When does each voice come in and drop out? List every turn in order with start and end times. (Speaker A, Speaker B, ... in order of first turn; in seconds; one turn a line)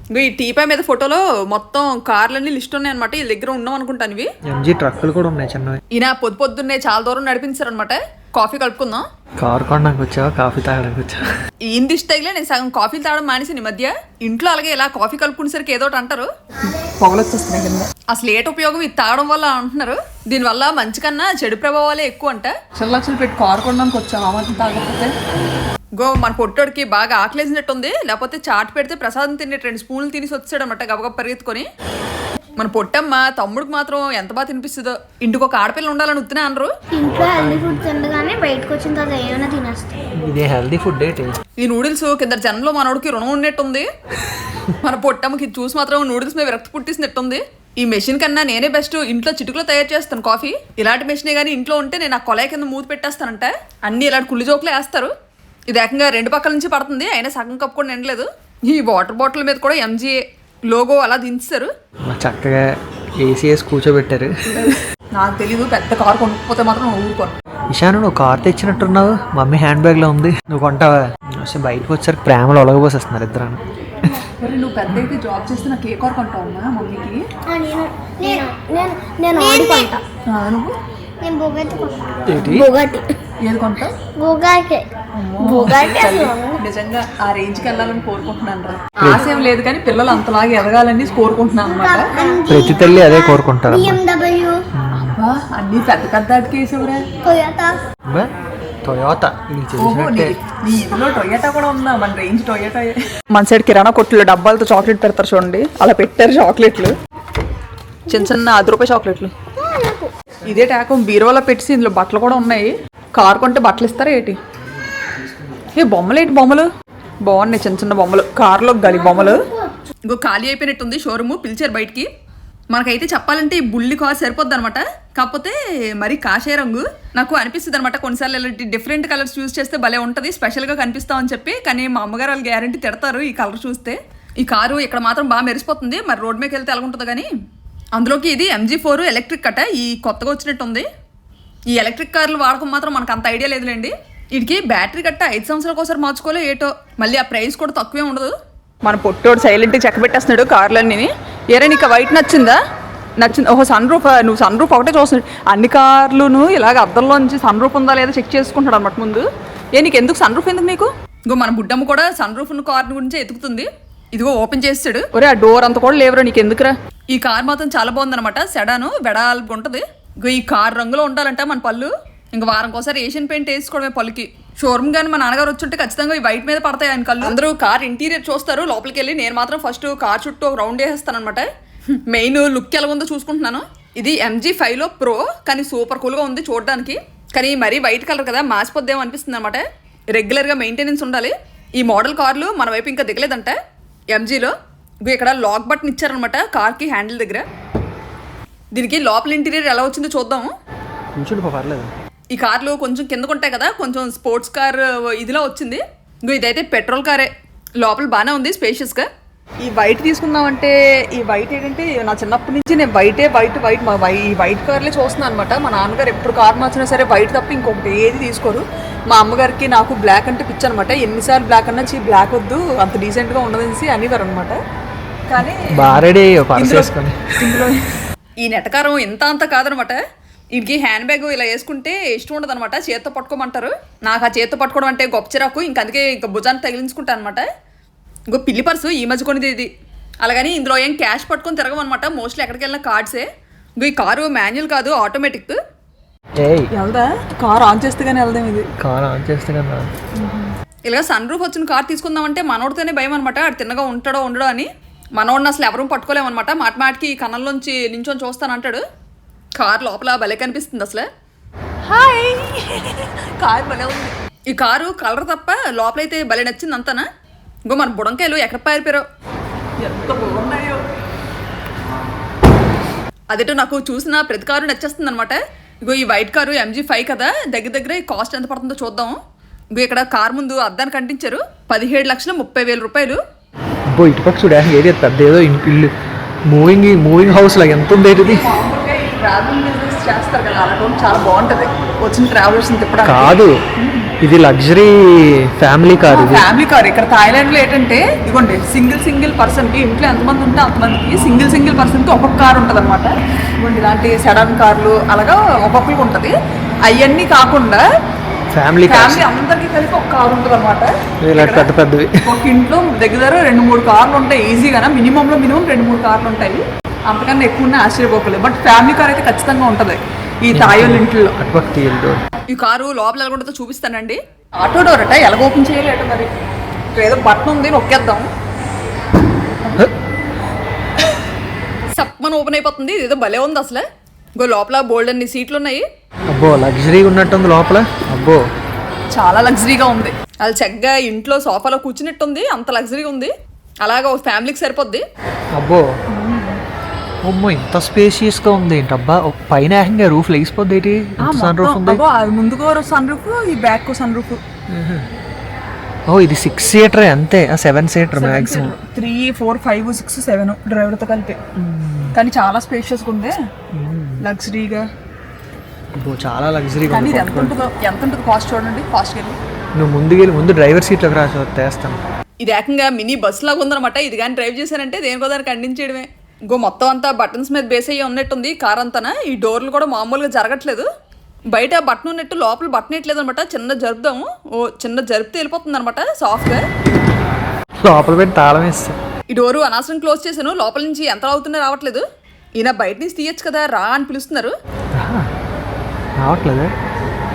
Speaker A: 0.1-4.3
Speaker B: 4.4-5.8
Speaker A: 5.9-9.0
Speaker B: 9.4-11.2
Speaker A: 11.7-25.2
Speaker A: 26.0-31.7
Speaker A: 32.6-36.7
Speaker C: 36.9-39.9
Speaker B: 37.0-37.8
Speaker B: 40.2-41.4
Speaker A: 41.6-43.9
Speaker A: 44.8-55.1
Speaker A: 55.7-61.7
Speaker B: 62.0-64.3
Speaker A: 64.5-67.3
Speaker B: 67.7-74.1
Speaker A: 74.4-77.2
Speaker C: 77.5-80.0
Speaker A: 79.4-80.7
Speaker C: 81.2-83.1
Speaker B: 82.3-82.7
Speaker A: 83.4-83.9
Speaker C: 84.2-84.9
Speaker A: 85.1-92.1
Speaker C: 85.4-86.6
Speaker B: 89.0-89.2
Speaker C: 91.6-94.6
Speaker B: 92.5-94.0
Speaker B: 94.7-95.2
Speaker A: 95.1-97.1
Speaker C: 97.2-97.8
Speaker B: 98.8-100.3
Speaker A: 99.8-106.9
Speaker A: 108.1-109.3
Speaker C: 109.6-110.1
Speaker A: 110.5-114.4
Speaker A: 115.8-116.7
Speaker A: 117.2-119.5
Speaker C: 119.2-119.4
Speaker A: 120.1-122.1
Speaker A: 122.7-137.3
Speaker A: 137.9-140.8
Speaker A: 141.7-152.6
Speaker A: 153.2-181.5
Speaker A: 182.1-193.6
Speaker A: 194.1-194.5
Speaker A: 195.0-197.4
Speaker A: 198.7-200.5
Speaker B: 201.2-201.9
Speaker A: 202.3-207.3
Speaker A: 207.8-209.1
Speaker A: 209.6-224.6
Speaker A: 225.3-227.8
Speaker B: 225.7-227.7
Speaker A: 228.4-230.0
Speaker A: 230.5-237.4
Speaker A: 238.3-239.7
Speaker A: 240.2-243.2
Speaker A: 243.8-245.6
Speaker B: 246.4-246.7
Speaker A: 246.7-248.7
Speaker B: 248.8-249.9
Speaker A: 250.2-258.8
Speaker A: 259.6-261.1
Speaker A: 261.8-267.1
Speaker A: 267.7-269.0
Speaker A: 269.8-270.8
Speaker A: 273.3-279.2
Speaker A: 279.7-283.2
Speaker B: 283.9-285.9
Speaker B: 286.5-288.5
Speaker A: 288.1-294.1
Speaker B: 293.0-293.6
Speaker B: 294.2-296.5
Speaker A: 296.1-307.8
Speaker B: 308.5-309.2
Speaker A: 308.8-311.7
Speaker B: 311.2-312.2
Speaker A: 312.2-321.4
Speaker B: 320.5-322.2
Speaker A: 322.5-326.3
Speaker A: 326.9-328.2
Speaker A: 331.9-333.8
Speaker A: 334.4-335.8
Speaker B: 336.3-338.4
Speaker A: 339.1-345.0
Speaker B: 345.5-345.8
Speaker A: 346.1-346.6
Speaker B: 347.2-352.0
Speaker A: 351.2-354.4
Speaker B: 354.7-355.1
Speaker B: 356.1-358.7
Speaker A: 358.1-361.4
Speaker B: 361.6-362.1
Speaker A: 362.1-363.3
Speaker B: 363.7-364.2
Speaker A: 364.2-364.9
Speaker B: 366.0-367.6
Speaker A: 366.9-369.4
Speaker B: 369.8-372.0
Speaker A: 372.4-380.9
Speaker A: 381.5-386.6
Speaker B: 387.8-388.9
Speaker A: 389.3-392.0
Speaker A: 392.6-394.5
Speaker B: 394.9-395.3
Speaker B: 396.2-396.7